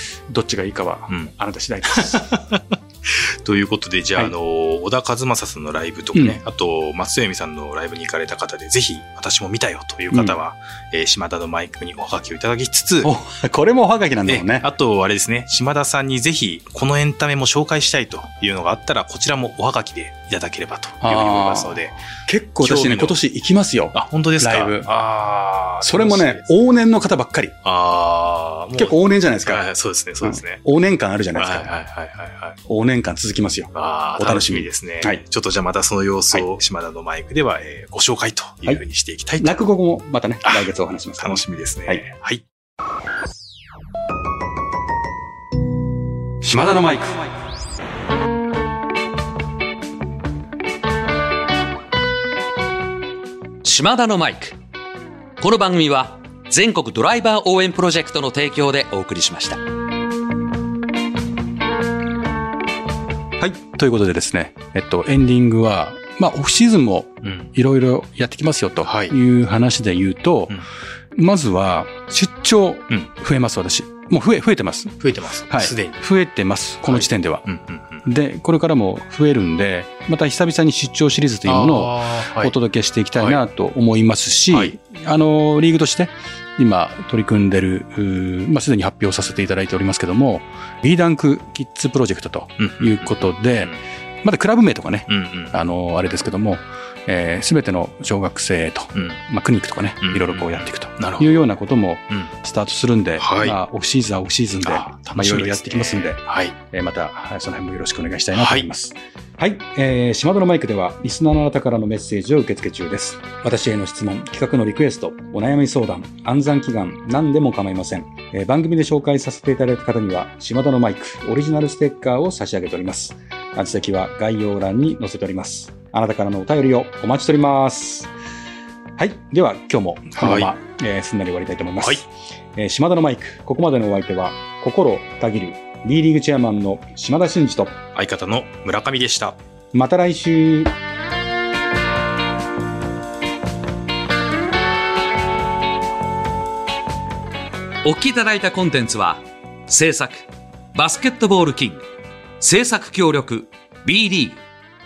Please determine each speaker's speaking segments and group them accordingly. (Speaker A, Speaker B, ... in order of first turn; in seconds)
Speaker A: 0.3-2.3, 10.1-10.4, 13.0-14.7, 21.0-24.9, 25.8-27.6, 28.8-29.6, 30.2-31.7, 32.7-35.2, 39.4-42.1, 46.4-47.3, 63.4-70.6, 71.2-75.0, 75.5-77.5, 78.0-128.1, 129.0-137.8, 139.7-140.7
Speaker B: 1.9-13.1, 14.3-22.0, 22.6-23.2, 23.9-26.5, 27.6-30.6, 31.4-32.6, 33.7-39.6, 40.5-42.4, 67.2-67.5, 68.8-69.1, 75.0-76.0, 76.8-78.1, 81.5-82.5, 83.2-83.4, 92.6-93.8, 95.1-95.6, 100.0-101.4, 103.2-103.6, 104.6-106.5, 108.3-108.7, 130.2-130.5, 137.9-139.4
Speaker C: 53.6-54.6, 55.4-59.6, 147.8-151.8, 152.4-154.4